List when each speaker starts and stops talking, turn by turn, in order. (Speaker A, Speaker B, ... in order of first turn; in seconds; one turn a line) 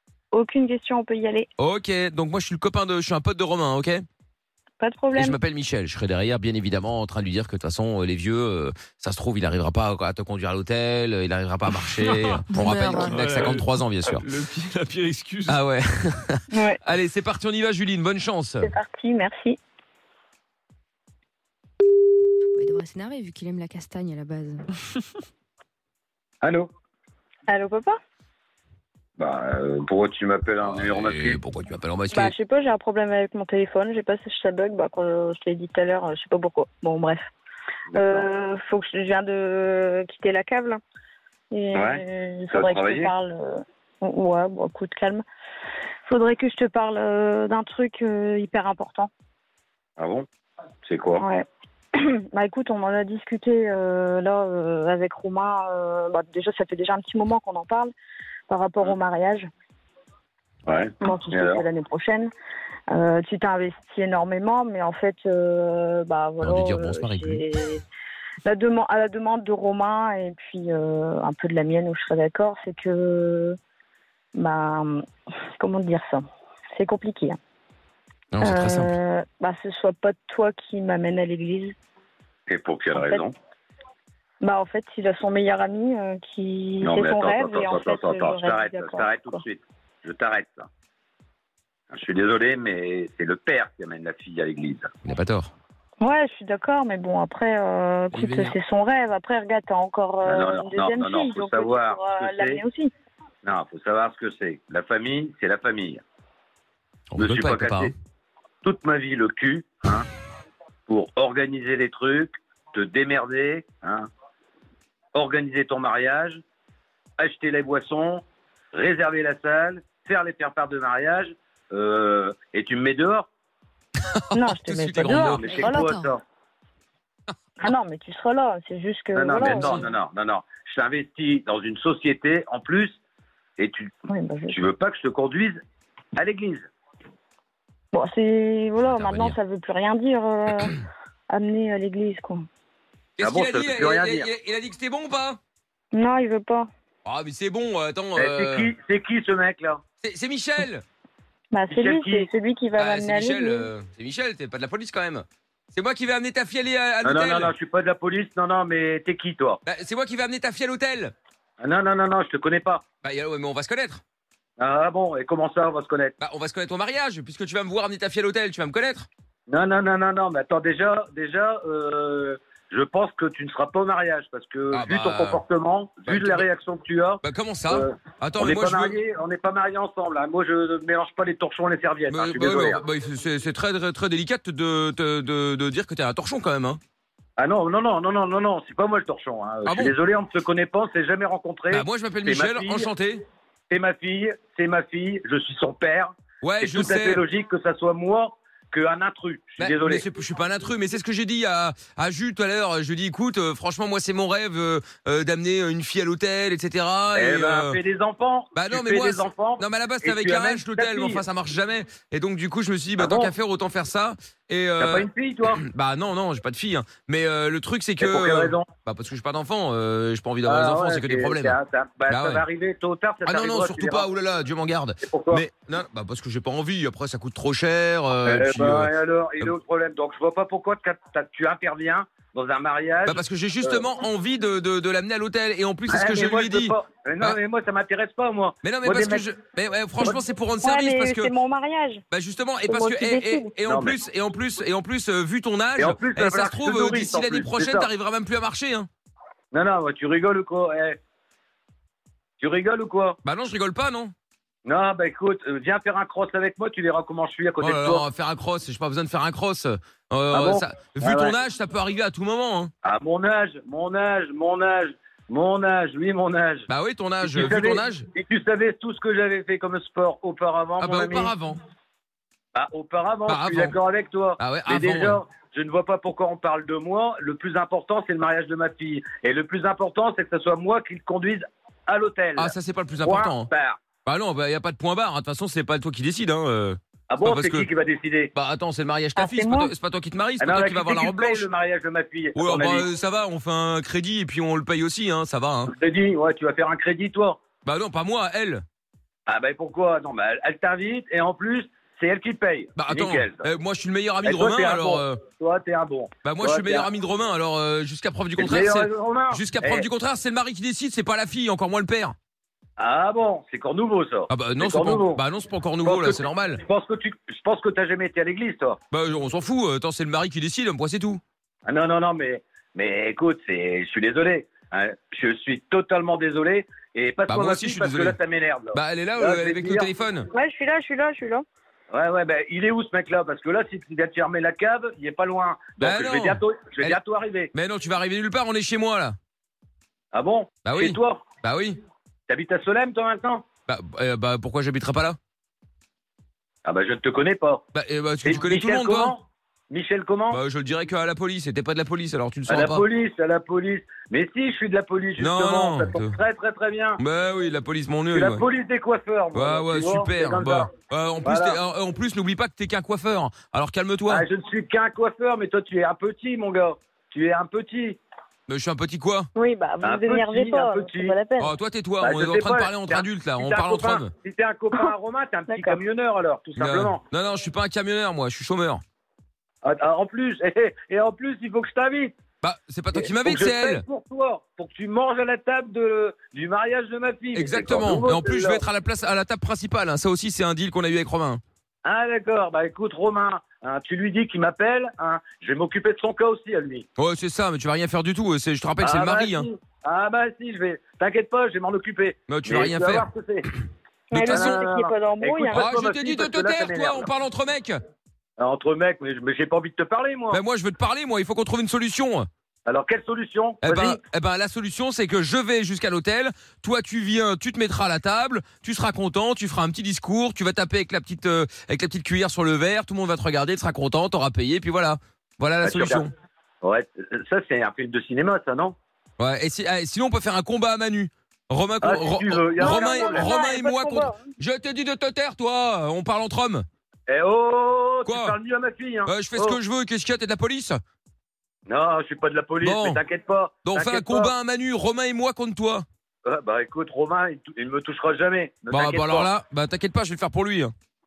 Speaker A: 0.3-1.5
Speaker B: 1.6-4.0
Speaker A: 4.8-5.4
Speaker B: 5.1-14.2
Speaker C: 12.0-15.6
Speaker D: 12.5-13.2
Speaker B: 15.5-18.7
Speaker A: 16.5-16.8
Speaker A: 18.6-19.6
Speaker D: 22.5-24.6
Speaker E: 26.4-26.7
Speaker A: 27.5-28.0
Speaker E: 29.2-31.4
Speaker B: 30.6-32.3
Speaker A: 32.1-37.3
Speaker E: 37.9-38.2
Speaker A: 37.9-40.8
Speaker A: 41.5-45.2
Speaker E: 41.7-43.1
Speaker A: 46.1-49.1
Speaker E: 50.0-50.2
Speaker E: 50.8-51.2
Speaker A: 51.2-51.4
Speaker A: 51.9-57.9
Speaker A: 58.5-59.5
Speaker E: 60.6-61.6
Speaker A: 61.0-62.3
Speaker A: 62.9-67.8
Speaker B: 66.4-67.4
Speaker A: 68.4-73.5
Speaker A: 74.3-76.2
Speaker A: 76.7-77.4
Speaker B: 78.3-78.9
Speaker A: 78.4-81.7
Speaker E: 82.5-83.3
Speaker A: 82.9-83.2
Speaker A: 84.4-89.4
Speaker E: 86.8-90.7
Speaker E: 91.9-94.9
Speaker B: 95.0-95.5
Speaker A: 96.0-102.9
Speaker B: 98.1-98.5
Speaker E: 100.2-102.6
Speaker E: 103.4-106.0
Speaker B: 107.1-107.9
Speaker E: 107.2-107.9
Speaker E: 108.6-110.1
Speaker E: 110.9-114.1
Speaker E: 115.1-116.4
Speaker E: 117.2-123.3
Speaker B: 124.1-125.4
Speaker A: 124.3-126.0
Speaker E: 125.1-126.2
Speaker D: 125.4-126.0
Speaker A: 127.6-129.8
Speaker E: 129.1-133.0
Speaker E: 133.6-133.9
Speaker A: 134.1-134.6
Speaker E: 134.5-135.6
Speaker E: 136.2-136.7
Speaker A: 137.9-142.4
Speaker B: 138.8-139.3
Speaker B: 143.2-145.4
Speaker E: 143.2-144.3
Speaker A: 145.9-146.7
Speaker B: 147.0-148.7
Speaker E: 148.2-149.8
Speaker B: 150.0-150.8
Speaker A: 151.5-153.7
Speaker E: 151.7-152.3
Speaker B: 152.7-157.5
Speaker E: 157.0-159.6
Speaker B: 159.6-161.1
Speaker E: 161.6-162.8
Speaker B: 163.0-164.0
Speaker E: 164.6-166.1
Speaker B: 166.2-169.1
Speaker E: 169.5-182.8
Speaker B: 174.7-175.4
Speaker B: 176.0-176.4
Speaker B: 177.2-179.0
Speaker B: 182.1-186.8
Speaker E: 187.4-192.9
Speaker B: 189.6-189.9
Speaker B: 191.7-193.2
Speaker E: 193.7-200.0
Speaker B: 196.4-197.2
Speaker B: 199.6-207.8
Speaker E: 207.1-211.2
Speaker B: 208.5-221.6
Speaker E: 213.0-213.3
Speaker E: 214.8-215.6
Speaker E: 218.0-218.7
Speaker E: 220.4-224.1
Speaker B: 222.1-222.4
Speaker B: 223.2-229.6
Speaker E: 225.0-225.4
Speaker E: 228.2-233.8
Speaker B: 233.0-237.4
Speaker E: 235.9-239.3
Speaker B: 238.6-241.3
Speaker A: 240.6-242.0
Speaker B: 242.1-248.9
Speaker A: 242.7-243.5
Speaker E: 243.7-244.0
Speaker E: 245.8-247.9
Speaker E: 249.5-251.0
Speaker E: 252.4-253.2
Speaker B: 253.2-254.1
Speaker E: 254.6-258.1
Speaker B: 257.6-262.7
Speaker E: 260.3-261.3
Speaker E: 262.8-266.7
Speaker B: 266.7-268.1
Speaker E: 267.2-271.3
Speaker B: 270.8-271.6
Speaker E: 272.5-283.8
Speaker B: 273.2-273.8
Speaker B: 274.4-275.2
Speaker B: 282.4-283.5
Speaker B: 284.0-287.7
Speaker E: 287.1-288.3
Speaker B: 288.3-291.5
Speaker A: 289.1-289.7
Speaker E: 290.4-292.9
Speaker B: 292.3-295.7
Speaker E: 295.7-297.4
Speaker B: 297.6-298.6
Speaker E: 299.3-303.4
Speaker B: 302.8-305.2
Speaker E: 304.2-306.9
Speaker B: 306.2-312.1
Speaker E: 308.4-309.9
Speaker E: 312.8-315.2
Speaker B: 314.3-316.6
Speaker E: 315.8-318.8
Speaker B: 318.9-321.2
Speaker E: 321.6-329.9
Speaker B: 327.3-328.2
Speaker B: 328.7-330.3
Speaker A: 330.3-331.4
Speaker E: 331.9-337.5
Speaker B: 335.8-337.0
Speaker B: 337.5-339.1
Speaker E: 340.1-341.2
Speaker B: 340.6-341.8
Speaker E: 342.3-343.4
Speaker B: 343.7-345.2
Speaker E: 346.6-347.6
Speaker B: 347.7-349.1
Speaker E: 348.2-350.4
Speaker B: 350.3-352.8
Speaker E: 352.5-357.0
Speaker B: 355.2-356.1
Speaker B: 357.0-358.4
Speaker E: 358.1-360.7
Speaker B: 359.3-364.2
Speaker E: 361.2-361.6
Speaker E: 364.1-368.0
Speaker B: 368.5-369.3
Speaker A: 369.4-371.5
Speaker E: 369.8-371.1
Speaker B: 371.4-374.1
Speaker E: 372.0-377.0
Speaker A: 375.5-375.8
Speaker B: 376.6-378.8
Speaker E: 379.6-382.1
Speaker B: 382.4-383.8
Speaker E: 382.9-388.6
Speaker B: 387.3-391.4
Speaker E: 391.8-396.9
Speaker B: 396.9-399.5
Speaker E: 398.8-403.5
Speaker B: 402.3-403.1
Speaker A: 404.1-405.7
Speaker B: 404.1-404.6
Speaker E: 404.2-407.1
Speaker B: 405.5-407.8
Speaker E: 408.4-410.4
Speaker B: 410.3-412.3
Speaker E: 412.6-414.0
Speaker B: 413.6-426.1
Speaker E: 425.6-426.1
Speaker E: 426.6-428.7
Speaker B: 429.2-436.6
Speaker E: 431.8-433.5
Speaker A: 432.6-434.2
Speaker E: 437.1-439.6
Speaker B: 438.0-438.4
Speaker B: 439.0-440.8
Speaker E: 441.6-444.3
Speaker B: 442.6-443.0
Speaker B: 443.6-445.8
Speaker E: 446.2-449.3
Speaker B: 448.7-450.7